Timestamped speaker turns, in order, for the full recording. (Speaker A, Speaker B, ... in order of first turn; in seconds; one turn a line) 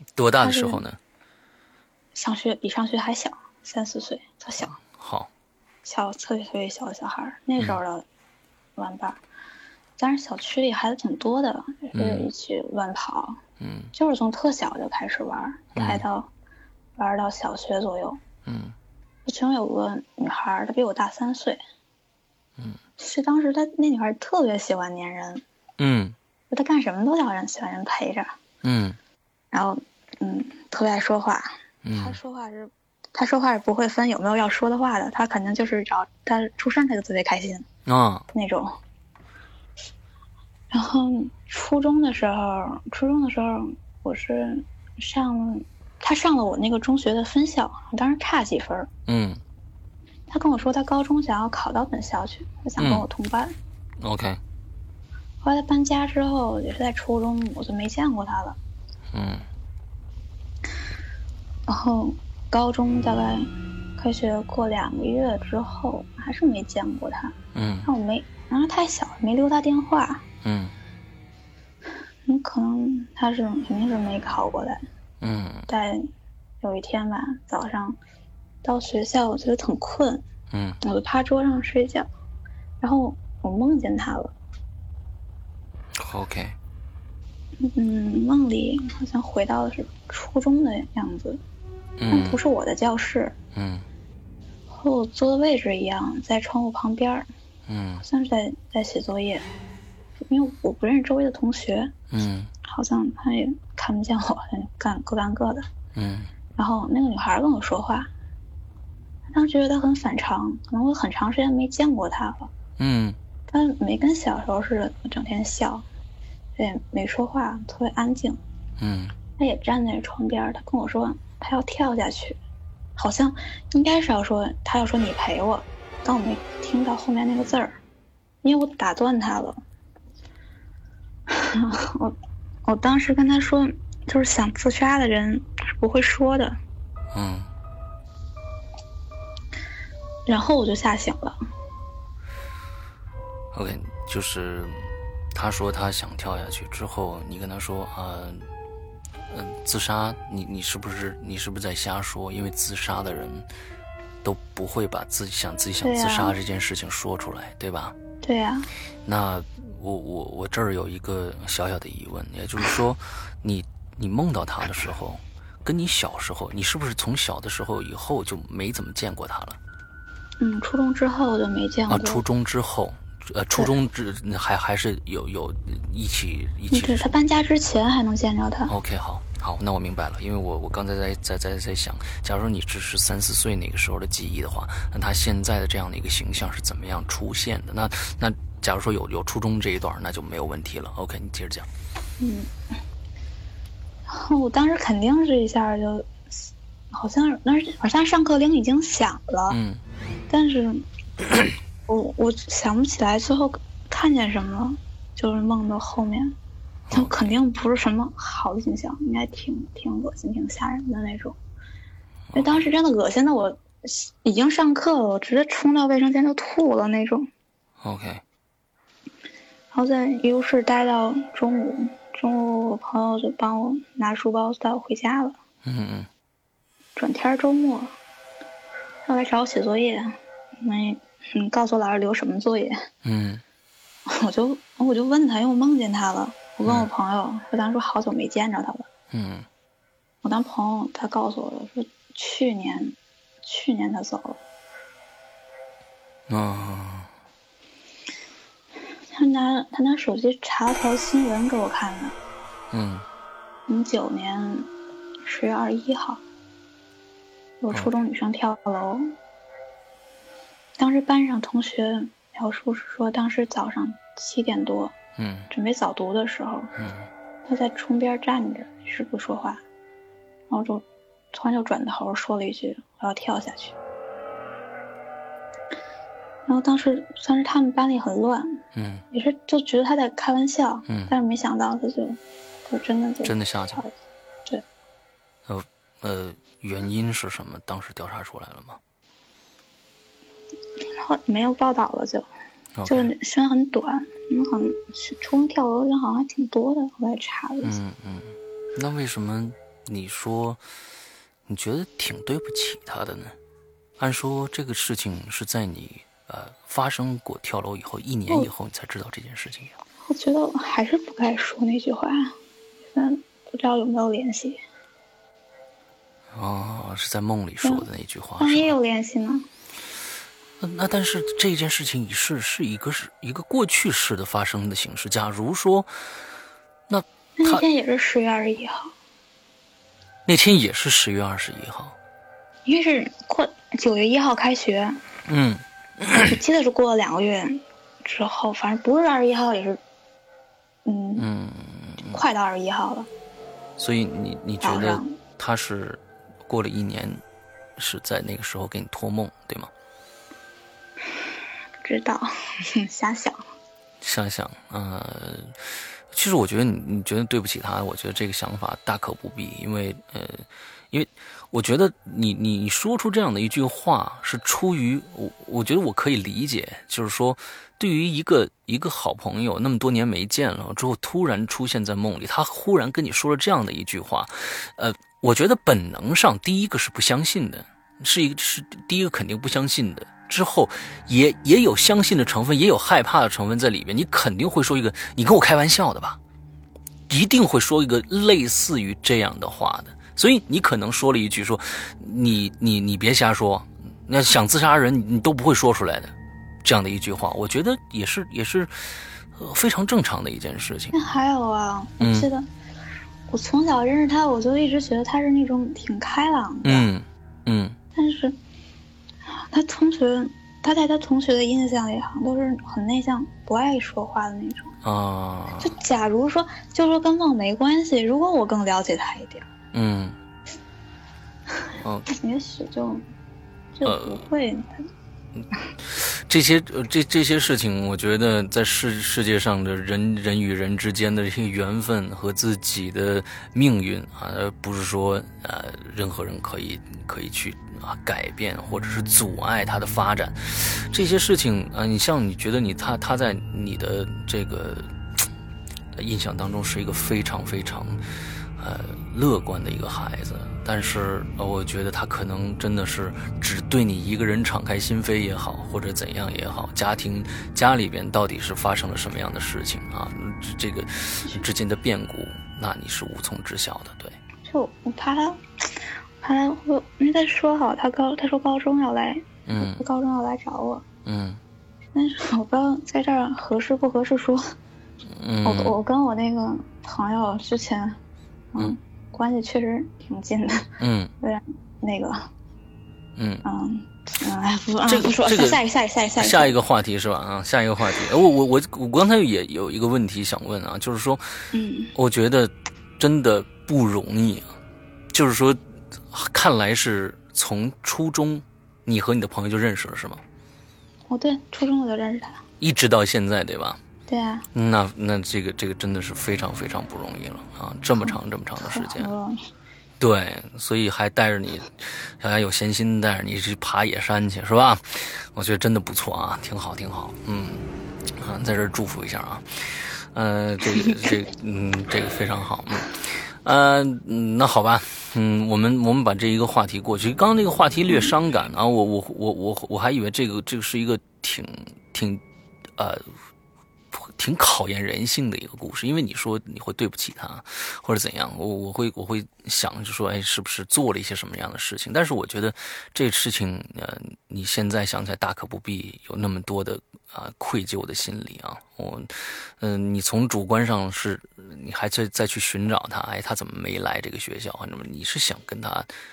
Speaker A: 0.2-1.0
Speaker B: 0.4-0.8
Speaker B: 2.1-4.8
Speaker A: 4.9-5.3
Speaker B: 5.8-8.1
Speaker B: 8.8-9.2
Speaker B: 10.0-13.4
Speaker A: 11.9-12.3
Speaker A: 13.6-13.9
Speaker B: 13.9-16.3
Speaker A: 15.8-16.1
Speaker B: 17.0-18.2
Speaker A: 18.4-18.8
Speaker B: 19.2-21.6
Speaker B: 23.0-25.4
Speaker A: 25.8-26.2
Speaker B: 26.5-28.4
Speaker A: 28.6-29.0
Speaker B: 29.5-37.7
Speaker A: 31.8-32.2
Speaker A: 37.9-38.3
Speaker B: 38.3-38.8
Speaker B: 40.7-48.9
Speaker A: 49.1-49.4
Speaker B: 50.3-53.5
Speaker A: 52.8-53.1
Speaker A: 54.0-54.4
Speaker B: 55.4-58.6
Speaker A: 59.1-59.5
Speaker B: 61.7-70.2
Speaker A: 67.5-67.9
Speaker A: 70.4-70.8
Speaker B: 72.3-74.8
Speaker A: 75.2-75.7
Speaker B: 75.7-76.0
Speaker B: 76.6-78.0
Speaker B: 78.6-80.2
Speaker A: 80.5-80.8
Speaker B: 80.8-82.1
Speaker B: 82.8-84.3
Speaker A: 86.0-86.6
Speaker B: 87.6-91.4
Speaker A: 92.0-92.4
Speaker B: 92.1-93.4
Speaker A: 93.5-93.9
Speaker B: 94.7-97.3
Speaker A: 97.7-98.0
Speaker B: 98.0-99.5
Speaker B: 100.2-102.0
Speaker A: 102.1-102.5
Speaker B: 102.6-105.7
Speaker A: 106.0-106.3
Speaker B: 106.6-108.1
Speaker B: 109.3-112.5
Speaker A: 112.8-113.2
Speaker B: 113.5-115.9
Speaker B: 116.6-118.4
Speaker A: 118.8-119.2
Speaker B: 119.4-122.4
Speaker B: 123.0-127.8
Speaker B: 128.4-129.6
Speaker B: 131.3-136.6
Speaker A: 137.1-137.5
Speaker B: 140.3-141.4
Speaker A: 143.5-148.5
Speaker A: 149.3-153.5
Speaker A: 154.2-157.9
Speaker B: 155.8-156.3
Speaker B: 158.2-158.7
Speaker A: 159.1-169.6
Speaker B: 170.4-172.2
Speaker A: 171.9-177.2
Speaker B: 176.7-178.7
Speaker A: 178.7-191.7
Speaker B: 192.2-192.5
Speaker B: 194.1-199.6
Speaker A: 199.5-199.8
Speaker B: 200.3-200.9
Speaker B: 201.9-206.4
Speaker A: 206.9-207.3
Speaker B: 206.9-211.4
Speaker A: 212.3-212.7
Speaker B: 212.3-217.3
Speaker A: 217.8-218.2
Speaker B: 219.7-225.4
Speaker A: 225.6-226.1
Speaker B: 227.0-227.9
Speaker B: 229.1-232.8
Speaker A: 233.0-233.4
Speaker B: 234.1-238.9
Speaker A: 239.1-239.5
Speaker B: 240.2-244.4
Speaker A: 246.3-247.1
Speaker B: 249.1-252.2
Speaker A: 252.7-253.1
Speaker B: 253.7-254.7
Speaker B: 255.2-256.2
Speaker B: 257.6-259.1
Speaker B: 260.8-264.9
Speaker A: 265.2-265.5
Speaker B: 265.5-266.7
Speaker A: 266.8-267.1
Speaker B: 267.4-269.6
Speaker B: 270.5-273.8
Speaker B: 276.5-278.6
Speaker A: 278.7-279.0
Speaker B: 279.1-283.9
Speaker A: 280.9-281.1
Speaker A: 283.2-283.8
Speaker A: 285.5-288.8
Speaker B: 290.8-292.3
Speaker A: 292.8-293.1
Speaker B: 292.9-297.8
Speaker A: 297.6-300.6
Speaker A: 301.5-303.4
Speaker A: 304.0-309.8
Speaker B: 310.0-312.4
Speaker B: 312.9-314.6
Speaker A: 316.3-318.8
Speaker B: 318.4-319.5
Speaker A: 320.6-325.9
Speaker A: 326.9-327.6
Speaker B: 327.4-328.9
Speaker A: 330.3-332.0
Speaker B: 332.6-335.0
Speaker A: 335.3-336.4
Speaker B: 336.2-339.8
Speaker B: 340.9-341.3
Speaker A: 341.2-342.2
Speaker B: 342.0-343.1
Speaker A: 343.8-347.2
Speaker B: 344.6-345.1
Speaker A: 347.8-349.7
Speaker B: 351.8-353.4
Speaker A: 354.0-386.2
Speaker A: 387.1-396.1
Speaker A: 396.6-401.0
Speaker B: 400.9-402.5
Speaker A: 402.0-402.3
Speaker B: 403.3-406.9
Speaker A: 406.6-407.8
Speaker B: 407.9-408.4
Speaker B: 409.3-414.7
Speaker A: 414.8-415.8
Speaker B: 415.6-419.5
Speaker A: 419.7-420.2
Speaker A: 421.8-422.1
Speaker B: 422.1-423.1
Speaker B: 423.7-424.9
Speaker A: 423.8-424.2
Speaker A: 425.8-444.9
Speaker A: 446.0-448.0
Speaker A: 448.6-464.2
Speaker B: 464.4-470.9
Speaker A: 469.5-469.8
Speaker A: 471.1-471.4
Speaker B: 471.9-474.4
Speaker A: 475.1-475.8
Speaker B: 475.4-478.0
Speaker B: 478.5-482.3
Speaker A: 480.8-481.1
Speaker A: 483.2-483.4
Speaker B: 483.4-486.6
Speaker A: 484.9-485.6
Speaker A: 486.2-491.3
Speaker B: 491.5-491.9
Speaker A: 491.9-494.5
Speaker A: 495.1-500.2
Speaker B: 501.1-502.4
Speaker A: 502.6-503.8
Speaker B: 504.1-504.5
Speaker A: 504.5-509.1
Speaker B: 508.0-509.5
Speaker A: 510.0-532.2
Speaker A: 532.8-533.1
Speaker A: 533.9-555.9